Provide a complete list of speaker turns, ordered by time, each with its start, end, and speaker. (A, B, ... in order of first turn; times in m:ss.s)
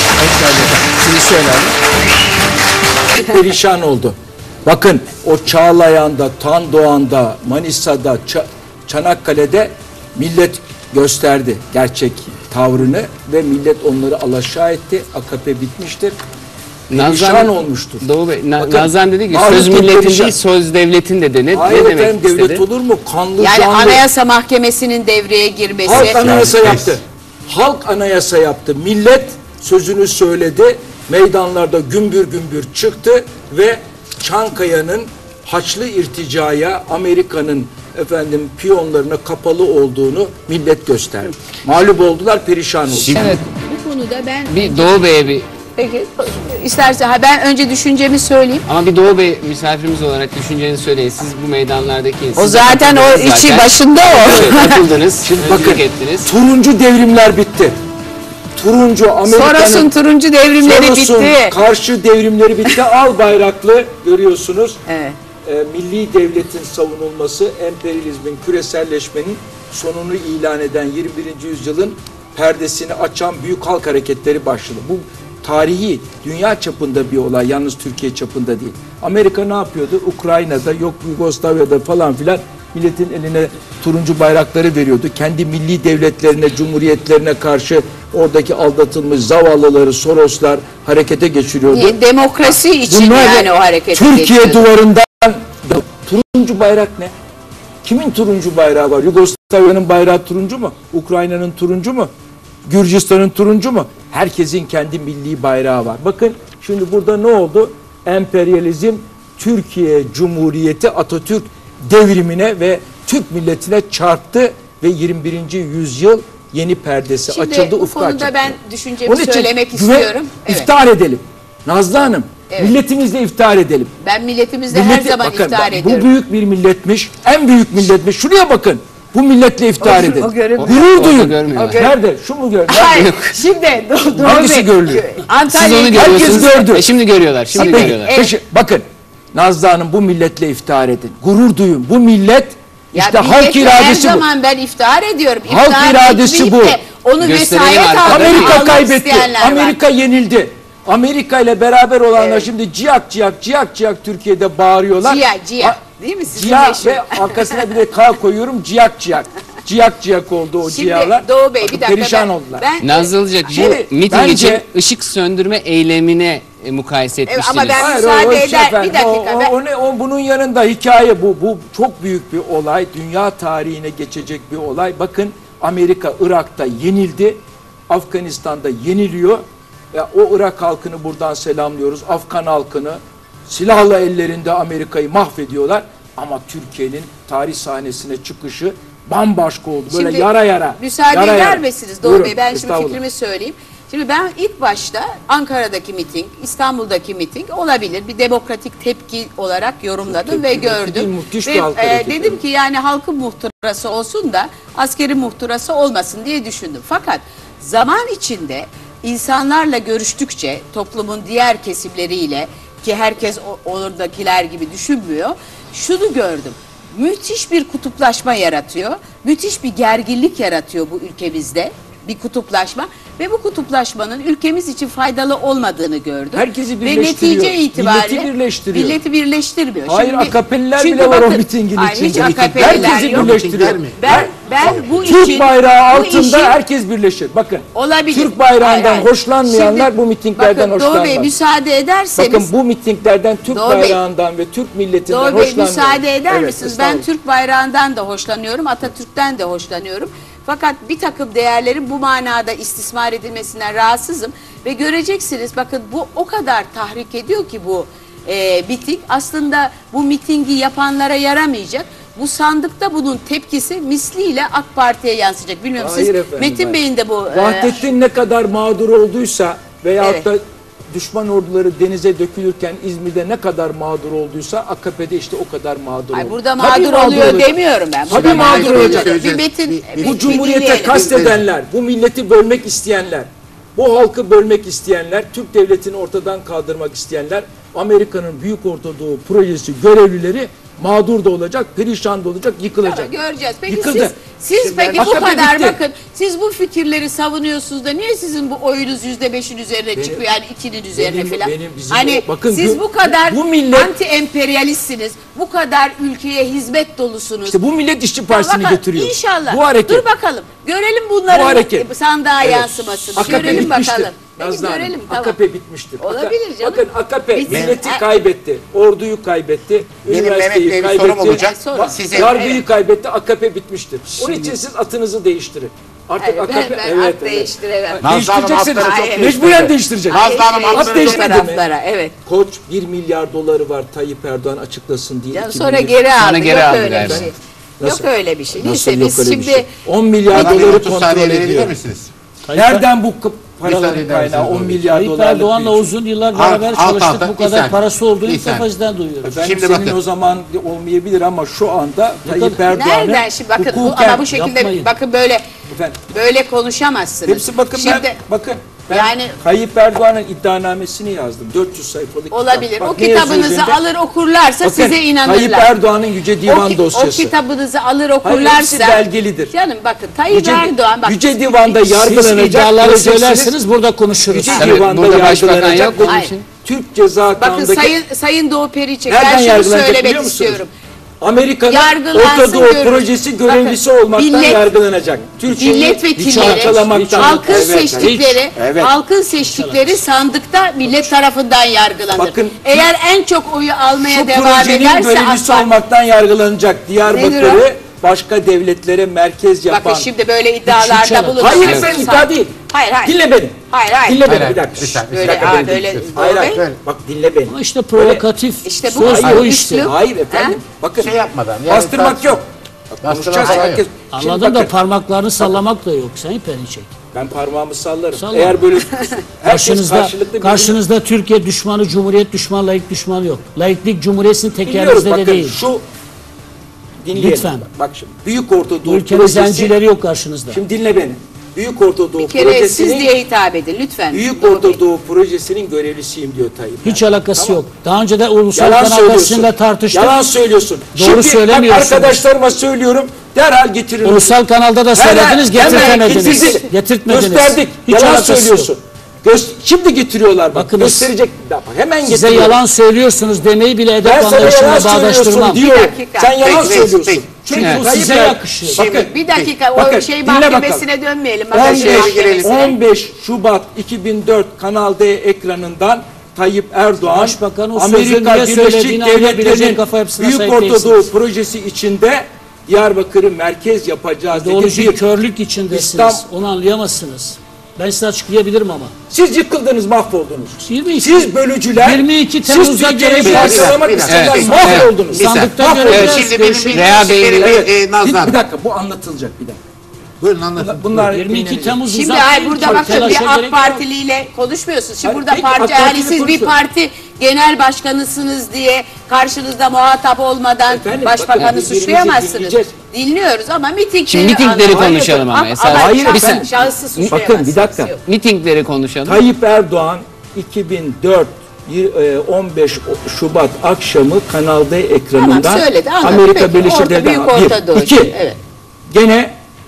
0:00.2-0:00.7 A
0:00.4-0:01.8 B
0:03.2-0:16.2 A
0:16.9-0:20.4 A
0:16.9-0:22.6 B
0:21.5-0:24.1 A
0:23.4-0:26.6 C
0:25.8-0:43.2 A
0:25.9-0:27.0 D
0:42.9-0:43.4 B
0:43.2-0:48.6 C
0:44.5-0:45.5 B
0:48.7-0:56.3 B
0:52.4-0:54.8 C
0:54.2-0:54.6 A
0:55.2-0:57.8 A
0:58.6-0:59.9 A
0:59.3-1:01.5 C
1:00.6-1:04.8 A
1:04.9-1:05.2 C
1:05.4-1:32.0 A
1:31.7-1:34.6 C
1:32.9-1:37.1 A
1:37.8-1:42.1 A
1:42.7-2:03.9 A
1:57.3-2:00.7 C
2:02.5-2:02.8 C
2:04.0-2:06.1 C
2:04.7-2:13.1 A
2:09.8-2:11.9 C
2:10.5-2:11.9 B
2:12.7-2:16.6 C
2:12.9-2:13.4 B
2:14.2-2:15.1 A
2:15.4-2:18.1 B
2:15.9-2:16.9 A
2:17.5-2:24.3 A
2:17.6-2:18.3 C
2:22.9-2:29.8 C
2:25.5-2:26.8 A
2:27.2-2:28.8 B
2:28.0-2:42.7 A
2:32.2-2:32.5 C
2:35.0-2:37.7 C
2:40.6-2:43.9 C
2:42.8-2:47.9 B
2:43.5-2:44.7 A
2:47.3-2:49.5 C
2:47.8-3:13.0 A
3:09.9-3:53.4 C
3:20.1-3:22.4 A
3:46.4-3:49.0 A
3:49.9-3:54.3 A
3:52.1-3:55.3 D
3:53.9-3:56.6 C
3:55.0-4:01.3 A
3:57.7-4:02.5 C
4:02.2-4:07.0 A
4:03.5-4:04.0 C
4:05.1-4:27.9 C
4:25.8-4:39.2 A
4:30.0-4:30.3 C
4:36.1-4:41.0 C
4:38.1-4:40.4 D
4:40.0-4:53.1 A
4:41.0-4:41.5 D
4:52.8-5:07.6 C
4:53.7-4:54.2 A
4:54.9-4:55.8 A
5:00.0-5:00.2 A
5:00.9-5:03.9 A
5:07.5-5:10.0 A
5:08.3-5:15.4 C
5:11.3-5:11.9 A
5:12.4-5:21.5 A
5:16.0-5:18.0 C
5:17.5-5:17.8 D
5:20.0-5:22.4 D
5:21.5-5:22.6 C
5:22.1-5:31.6 A
5:24.2-5:24.5 C
5:26.2-5:28.1 C
5:28.0-5:31.5 D
5:28.7-5:29.5 C
5:30.1-5:32.2 C
5:32.2-5:36.0 A
5:35.3-5:39.7 C
5:36.2-5:37.3 B
5:36.9-5:41.8 A
5:40.3-5:42.1 D
5:42.4-5:42.9 E
5:42.6-5:45.9 A
5:43.6-5:44.0 E
5:43.7-5:44.9 D
5:44.9-5:49.4 E
5:46.3-5:48.7 D
5:49.2-5:54.3 A
5:49.4-5:50.0 D
5:52.2-5:52.6 E
5:52.7-5:55.4 C
5:54.3-5:54.9 E
5:55.7-5:56.0 A
5:56.1-5:58.2 C
5:57.3-6:03.8 A
5:58.9-5:59.4 C
6:02.3-6:05.7 C
6:04.6-6:07.3 A
6:06.5-6:11.9 C
6:08.2-6:09.5 A
6:10.3-6:13.6 A
6:12.0-6:14.6 E
6:14.2-6:18.0 A
6:14.5-6:14.8 C
6:14.6-6:16.4 B
6:16.0-6:16.3 C
6:17.4-6:20.7 C
6:19.1-6:20.6 A
6:21.2-6:28.9 A
6:21.7-6:24.7 C
6:25.5-6:35.7 C
6:26.2-6:28.5 E
6:29.4-6:30.0 E
6:32.1-6:32.9 A
6:34.0-6:40.1 A
6:37.0-6:37.6 C
6:39.7-6:43.2 C
6:40.7-6:41.8 E
6:41.4-6:48.2 A
6:41.6-6:41.9 B
6:43.7-6:44.2 C
6:44.2-6:46.8 D
6:45.0-6:46.6 C
6:47.5-6:49.9 E
6:48.6-6:50.6 C
6:49.0-6:52.5 A
6:51.0-6:52.4 D
6:53.0-6:54.8 A
6:53.0-6:53.8 D
6:54.1-6:56.9 E
6:57.1-7:00.8 A
6:58.1-6:58.7 E
6:59.4-7:05.6 E
7:04.6-7:05.8 A
7:07.0-7:09.8 A
7:07.1-7:07.7 E
7:08.8-7:10.6 E
7:10.5-7:13.1 A
7:12.2-7:14.8 C
7:14.1-7:17.6 A
7:16.8-7:20.2 E
7:18.5-7:24.4 A
7:20.9-7:22.2 E
7:24.0-7:28.7 E
7:24.9-7:32.6 A
7:25.6-7:26.7 C
7:30.5-7:31.1 E
7:32.0-7:35.6 E
7:34.0-7:40.9 A
7:35.4-7:36.5 C
7:36.4-7:37.7 D
7:37.5-7:38.8 E
7:37.6-7:37.8 B
7:38.7-7:39.6 D
7:38.9-7:42.7 C
7:41.5-7:55.0 A
7:41.6-7:42.6 D
7:47.0-7:51.1 E
7:54.3-7:58.9 E
7:55.7-7:56.2 A
7:59.1-8:06.2 A
8:00.6-8:03.8 E
8:03.2-8:08.4 D
8:04.1-8:04.9 B
8:04.9-8:06.9 E
8:05.9-8:07.6 B
8:07.4-8:09.6 A
8:10.2-8:11.1 D
8:10.6-8:11.8 A
8:11.1-8:13.8 E
8:11.9-8:28.0 C
8:12.6-8:13.2 A
8:15.0-8:16.5 A
8:20.7-8:22.7 A
8:24.1-8:27.2 B
8:24.7-8:25.1 A
8:25.7-8:26.5 A
8:27.1-8:28.0 A
8:28.0-8:29.2 B
8:29.0-8:38.2 A
8:35.2-8:38.4 C
8:38.9-8:39.3 A